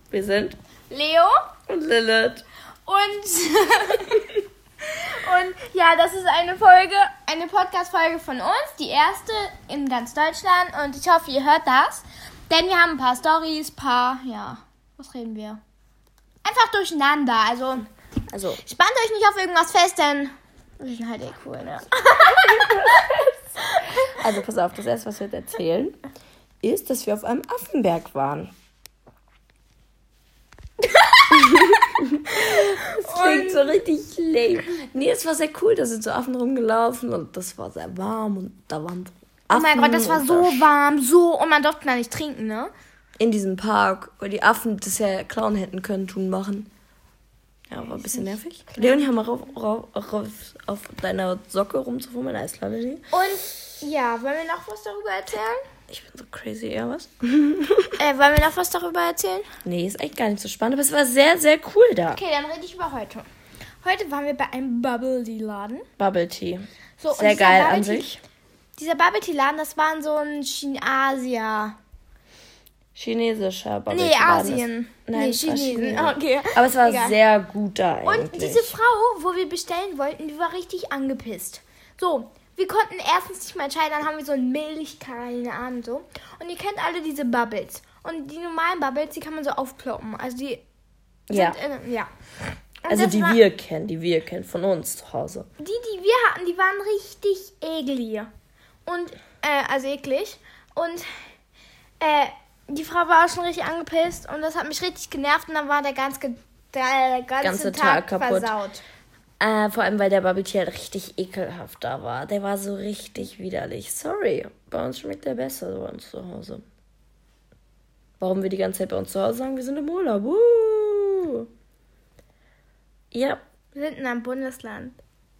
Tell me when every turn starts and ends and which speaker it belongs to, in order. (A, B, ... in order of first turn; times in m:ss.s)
0:00.1-0:00.6 A
0:00.9-0:01.3 B
0:01.7-0:02.4 A
0:02.8-0:15.6 B
0:16.4-0:17.9 B
0:18.3-0:18.6 A
0:18.6-0:23.0 B
0:22.4-0:23.3 A
0:24.0-0:26.0 A
0:26.6-0:28.5 A
0:30.9-0:31.7 B
0:31.3-0:40.7 A
0:32.3-0:33.8 B
0:39.5-0:42.7 B
0:43.2-0:46.7 A
0:47.7-0:53.1 A
0:48.0-0:49.1 B
0:53.1-0:55.6 B
0:55.9-0:58.0 A
0:58.0-0:59.5 B
0:59.6-1:02.2 A
1:02.1-1:03.3 B
1:03.8-1:05.9 B
1:06.0-1:08.2 A
1:07.0-1:08.1 B
1:08.8-1:11.8 B
1:12.9-1:18.8 A
1:13.9-1:17.2 B
1:18.0-1:30.6 B
1:31.3-1:32.1 B
1:31.3-1:31.6 A
1:32.8-1:33.4 B
1:32.9-1:35.5 A
1:35.6-1:38.3 B
1:38.8-1:41.1 B
1:42.0-1:48.8 B
1:47.4-1:48.5 A
1:49.4-1:56.6 A
1:58.2-2:01.5 A
2:03.1-2:03.4 A
2:03.7-2:05.0 B